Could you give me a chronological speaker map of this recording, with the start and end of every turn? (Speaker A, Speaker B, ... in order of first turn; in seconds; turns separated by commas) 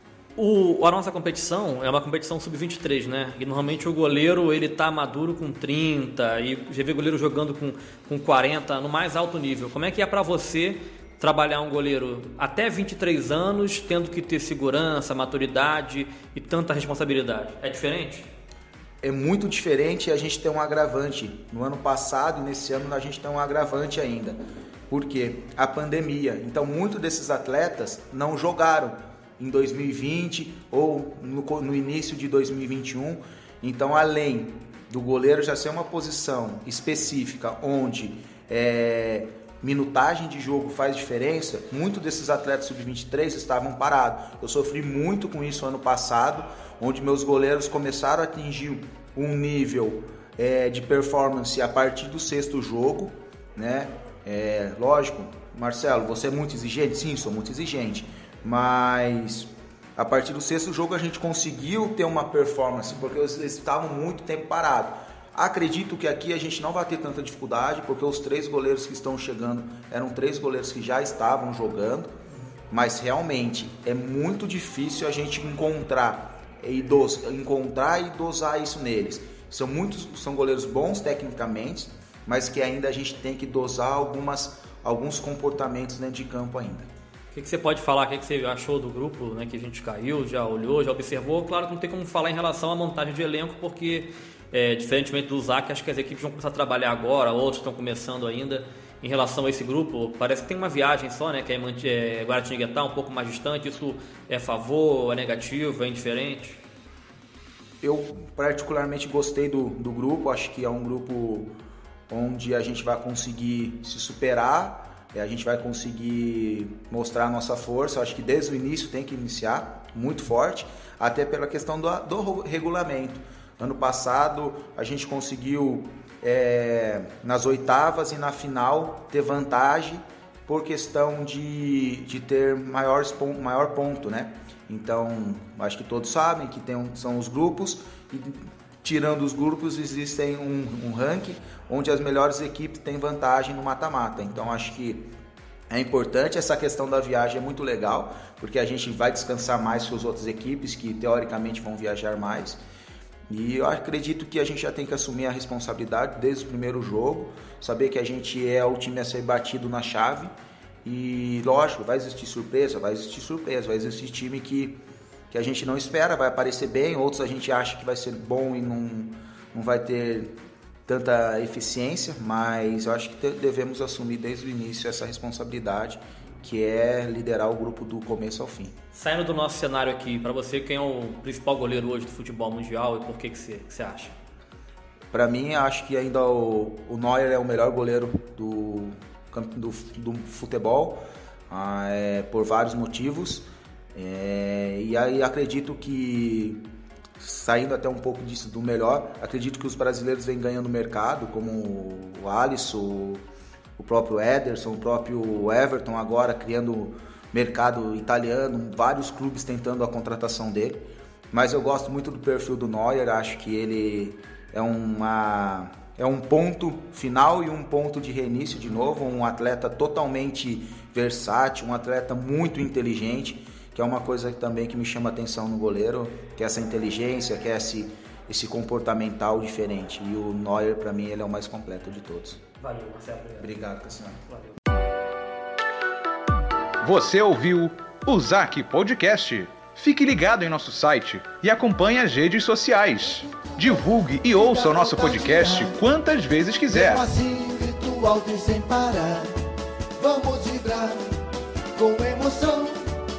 Speaker A: 0.4-18.3, Speaker B: 19.0-24.4, Speaker B: 24.9-72.1, Speaker B: 72.7-86.9, Speaker A: 87.3-106.6, Speaker B: 107.8-111.5, Speaker B: 112.1-145.1, Speaker B: 145.7-152.6, Speaker B: 153.3-160.3, Speaker B: 160.8-164.8, Speaker B: 165.3-170.3, Speaker B: 170.9-178.7, Speaker A: 178.9-184.2, Speaker B: 185.1-196.7, Speaker B: 197.2-203.2, Speaker B: 203.8-232.4, Speaker A: 232.6-233.6, Speaker B: 233.4-234.2, Speaker A: 234.3-234.6, Speaker C: 236.8-247.1, Speaker D: 243.2-243.7, Speaker D: 244.2-245.8, Speaker D: 246.7-249.3, Speaker D: 250.0-251.2, Speaker D: 251.8-252.9